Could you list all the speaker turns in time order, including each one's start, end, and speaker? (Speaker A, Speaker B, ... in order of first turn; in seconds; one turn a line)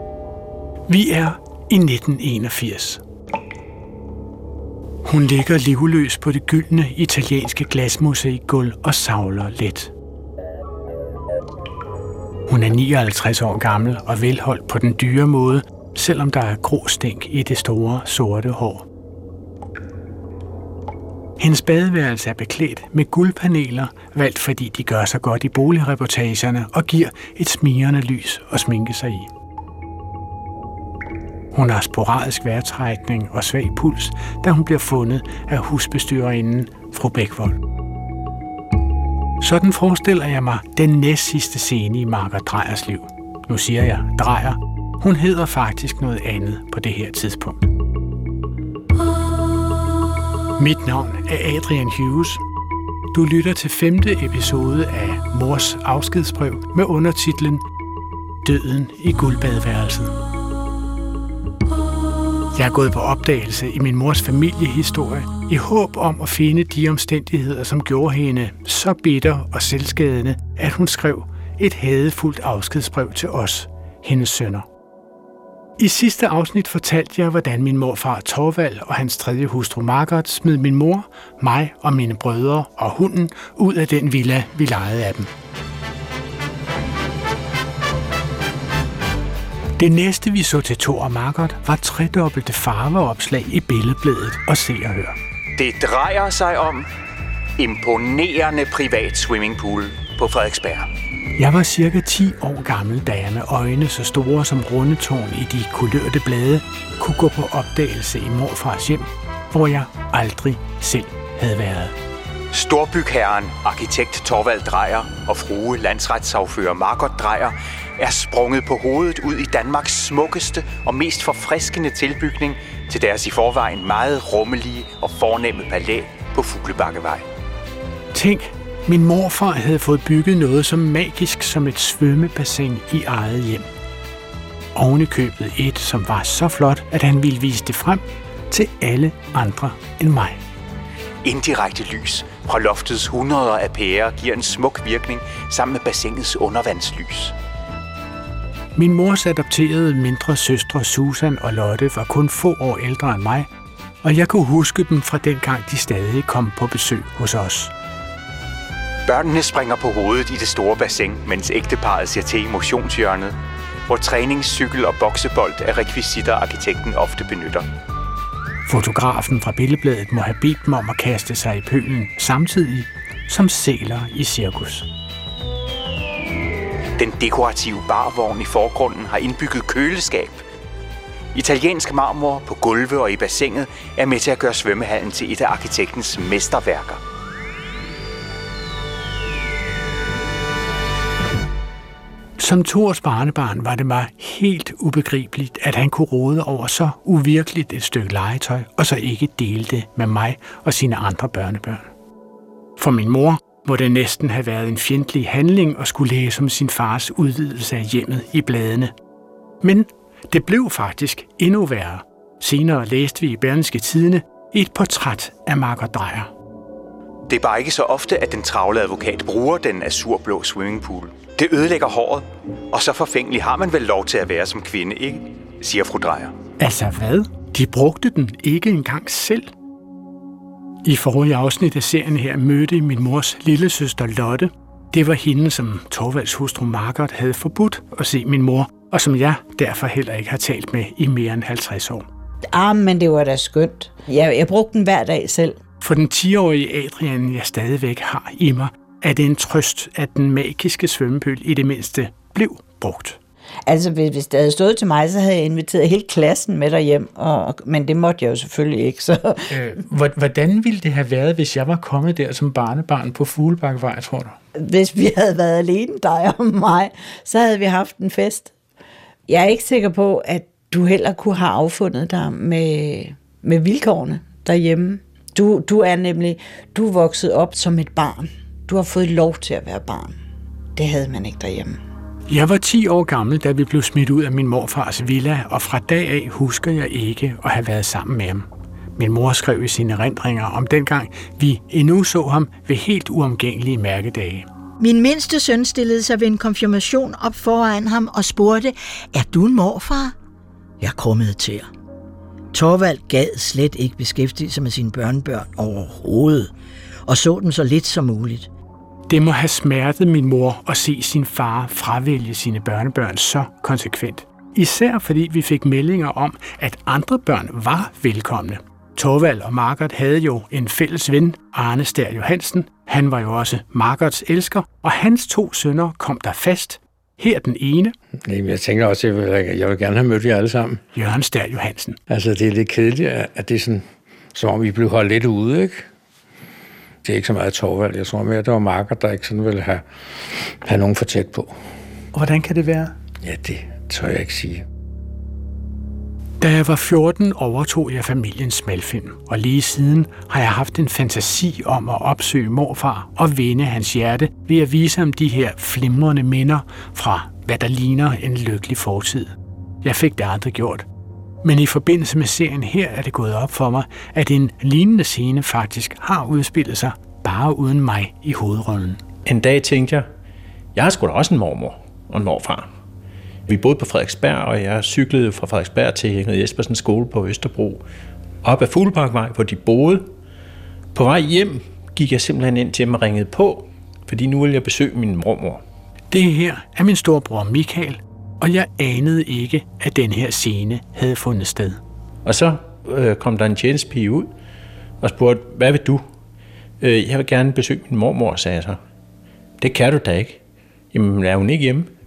Speaker A: 0.9-3.0
Speaker A: 5.0-9.9
Speaker A: 12.5-18.9
Speaker A: 21.4-29.3
Speaker A: 31.5-37.6
Speaker A: 39.4-47.7
Speaker A: 50.6-52.4
Speaker A: 53.1-57.6
Speaker A: 58.4-60.1
Speaker A: 62.5-74.7
Speaker A: 75.8-85.3
Speaker A: 89.8-95.1
Speaker B: 95.6-96.9
Speaker B: 97.6-100.9
Speaker A: 101.4-111.9
Speaker B: 112.5-127.2
Speaker A: 128.1-133.7
Speaker A: 134.7-140.4
Speaker B: 141.2-147.3
Speaker A: 148.8-153.5
Speaker A: 154.0-157.7
Speaker B: 159.1-163.3
Speaker B: 163.9-167.6
Speaker A: 168.7-174.9
Speaker B: 177.0-180.4
Speaker B: 181.3-187.0
Speaker A: 192.4-201.9
Speaker A: 202.8-208.9
Speaker A: 209.6-216.3
Speaker B: 217.3-226.3
Speaker A: 226.6-229.5
Speaker A: 230.8-242.1
Speaker C: 242.5-245.6
Speaker A: 245.8-253.2
Speaker C: 253.7-259.5
Speaker A: 259.5-264.3
Speaker C: 264.6-268.5
Speaker C: 269.3-280.1
Speaker C: 280.8-281.8
Speaker A: 282.3-294.4
Speaker D: 294.8-300.1
Speaker D: 300.8-301.7
Speaker D: 302.5-306.5
Speaker D: 307.1-308.5
Speaker A: 309.1-327.9
Speaker E: 328.2-330.8
Speaker A: 330.9-332.0
Speaker E: 332.1-335.9
Speaker E: 337.0-341.6
Speaker A: 342.1-342.9
Speaker E: 343.2-344.6
Speaker A: 346.4-360.9
Speaker A: 361.4-369.0
Speaker F: 369.2-370.1
Speaker F: 370.7-372.7
Speaker F: 373.5-377.8
Speaker F: 378.4-380.1
Speaker F: 380.9-385.6
Speaker A: 386.1-391.8
Speaker F: 392.2-394.3
Speaker F: 395.0-396.0
Speaker F: 396.8-398.8
Speaker F: 399.6-400.4
Speaker F: 400.9-401.9